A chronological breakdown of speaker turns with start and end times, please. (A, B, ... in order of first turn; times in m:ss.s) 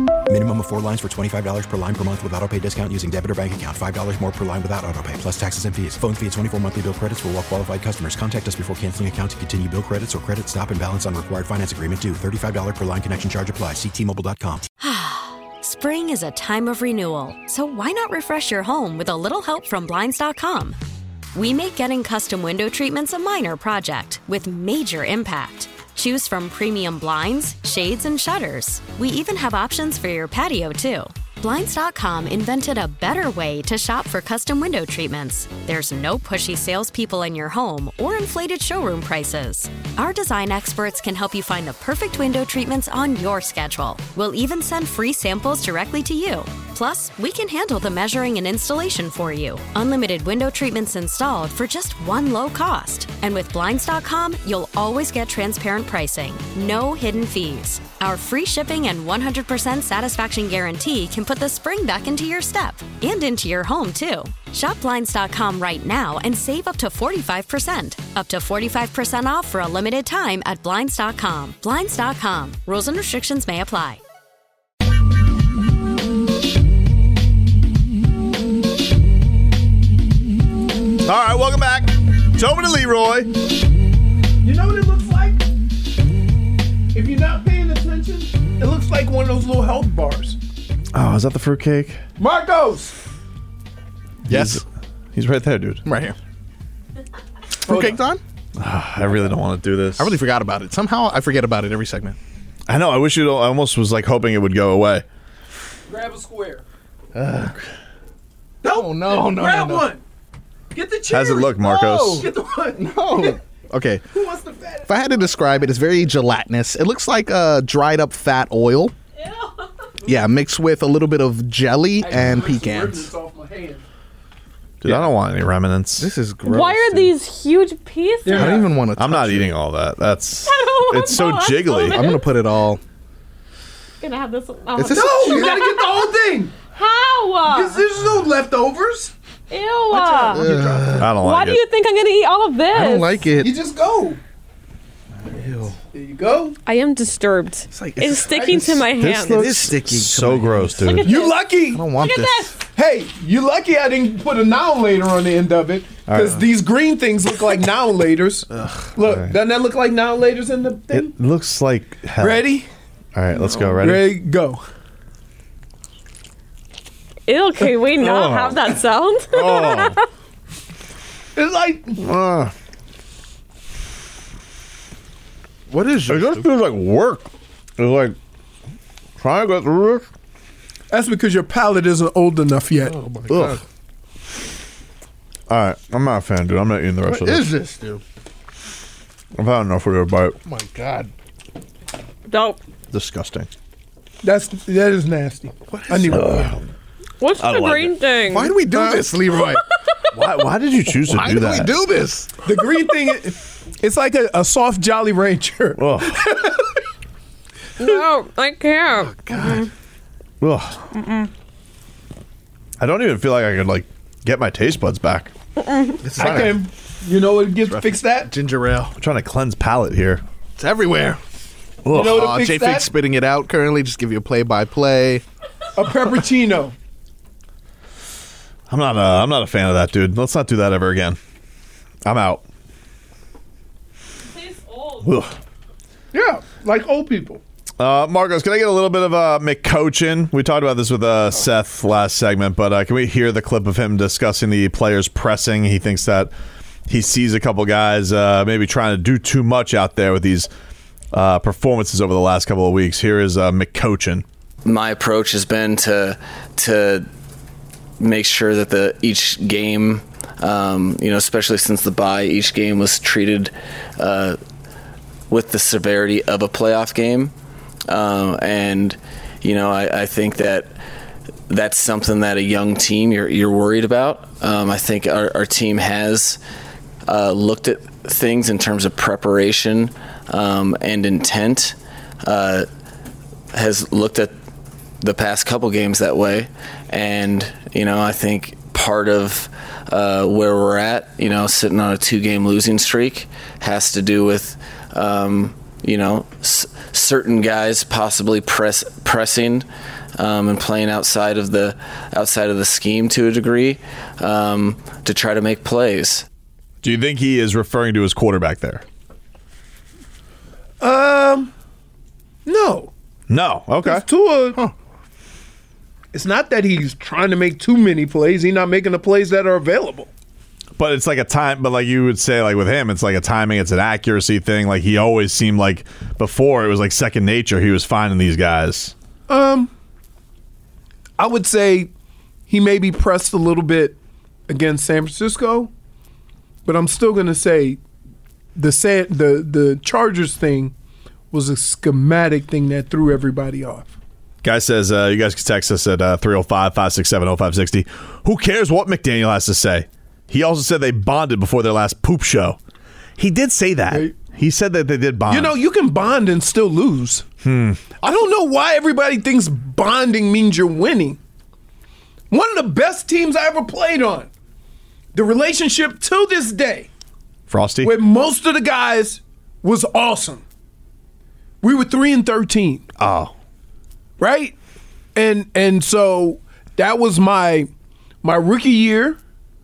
0:00.3-0:14.6 A
0:14.8-0:20.8 B
0:21.3-1:14.0 B
1:21.0-1:23.3 C
1:24.4-1:25.4 D
1:26.9-1:30.4 D
1:30.9-1:32.0 C
1:32.2-1:32.9 D
1:34.3-1:34.6 E
1:34.3-1:34.6 C
1:35.1-1:35.8 C
1:35.8-1:36.2 E
1:37.6-1:38.2 E
1:37.7-1:38.0 D
1:38.6-1:40.1 C
1:40.0-1:42.2 E
1:42.7-1:45.0 C
1:45.9-1:46.6 D
1:47.2-1:47.6 C
1:48.6-1:50.0 D
1:48.6-1:49.9 E
1:50.7-1:53.4 D
1:51.1-1:52.2 C
1:51.6-1:54.0 E
1:54.1-1:55.6 D
1:54.9-1:58.9 E
2:00.0-2:03.1 E
2:02.0-2:03.8 D
2:04.8-2:06.1 C
2:04.8-2:05.1 E
2:06.0-2:07.1 E
2:06.4-2:08.6 F
2:08.2-2:08.7 D
2:08.3-2:09.5 E
2:09.0-2:12.0 C
2:10.4-2:12.2 F
2:11.9-2:12.8 E
2:14.0-2:16.1 F
2:14.7-2:15.6 E
2:14.9-2:16.6 D
2:16.7-2:17.8 F
2:17.5-2:19.1 D
2:19.5-2:20.5 F
2:19.9-2:21.0 D
2:20.3-2:21.1 E
2:21.0-2:21.6 C
2:21.2-2:23.3 F
2:22.7-2:23.5 E
2:23.4-2:24.2 D
2:25.2-2:25.7 E
2:25.9-2:26.6 D
2:26.6-2:29.6 F
2:27.7-2:32.5 E
2:28.3-2:28.8 D
2:28.9-2:31.1 C
2:30.8-2:31.4 F
2:31.0-2:31.9 D
2:31.9-2:32.5 F
2:32.7-2:41.1 D
2:36.1-2:36.4 C
2:38.6-2:38.9 E
2:39.0-2:39.3 C
2:40.9-2:42.5 C
2:42.2-2:42.7 D
2:43.1-2:44.1 C
2:43.5-2:44.6 D
2:47.3-2:50.0 F
2:48.0-2:48.7 C
2:49.3-2:50.0 C
2:51.4-2:52.0 D
2:52.0-2:52.5 C
2:55.7-2:56.5 E
2:56.1-2:58.2 C
2:59.2-3:00.0 C
3:00.9-3:03.0 D
3:02.8-3:03.6 E
3:03.3-3:03.6 C
3:05.5-3:07.5 C
3:07.0-3:08.0 E
3:09.4-3:10.4 C
3:10.4-3:11.1 E
3:12.3-3:12.6 F
3:12.9-3:13.5 C
3:14.2-3:16.5 D
3:15.7-3:16.3 E
3:16.1-3:16.6 C
3:17.2-3:19.0 F
3:17.4-3:17.9 C
3:18.3-3:19.6 E
3:20.1-3:21.7 C
3:20.8-3:22.3 E
3:22.4-3:26.6 D
3:25.8-3:26.2 C
3:27.8-3:29.7 F
3:28.9-3:29.7 E
3:30.4-3:30.8 C
3:30.9-3:31.3 F
3:32.8-3:35.3 C
3:35.6-3:36.0 F
3:36.0-3:36.6 E
3:36.2-3:38.3 D
3:36.2-3:36.5 C
3:37.7-3:38.9 E
3:39.0-3:40.2 C
3:40.6-3:41.2 E
3:41.9-3:42.9 D
3:41.9-3:45.2 E
3:45.8-3:46.7 D
3:48.7-3:51.2 C
3:52.0-3:52.4 C
3:54.3-3:55.1 F
3:55.0-3:55.3 C
3:56.1-3:57.4 D
3:57.8-4:06.3 C
4:06.9-4:10.5 C
4:11.1-4:14.2 C
4:14.6-4:17.1 G
4:18.0-4:24.4 G
4:25.3-4:27.3 G
4:27.9-4:30.7 G
4:31.5-4:36.4 G
4:37.0-4:42.7 G
4:43.5-4:44.3 G
4:45.0-5:06.2 G
5:06.8-5:08.8 C
5:10.8-5:11.5 D
5:12.4-5:12.9 D
5:13.3-5:14.0 C
5:13.8-5:14.6 D
5:16.1-5:20.1 D
5:20.8-5:28.9 C
5:29.3-5:29.7 D
5:31.2-5:31.9 D
5:32.5-5:34.0 D
5:34.5-5:35.7 D
5:36.6-5:37.8 D
5:38.6-5:40.7 D
5:41.3-5:43.9 D
5:44.4-5:52.6 C
5:53.2-5:55.5 C
5:55.3-5:57.2 D
5:57.4-5:57.8 C
5:58.0-6:01.2 D
6:02.3-6:04.3 D
6:05.1-6:06.9 D
6:07.5-6:07.9 C
6:07.8-6:10.4 D
6:11.6-6:12.8 D
6:13.0-6:13.3 C
6:14.2-6:14.5 D
6:15.2-6:17.7 D
6:18.2-6:19.2 D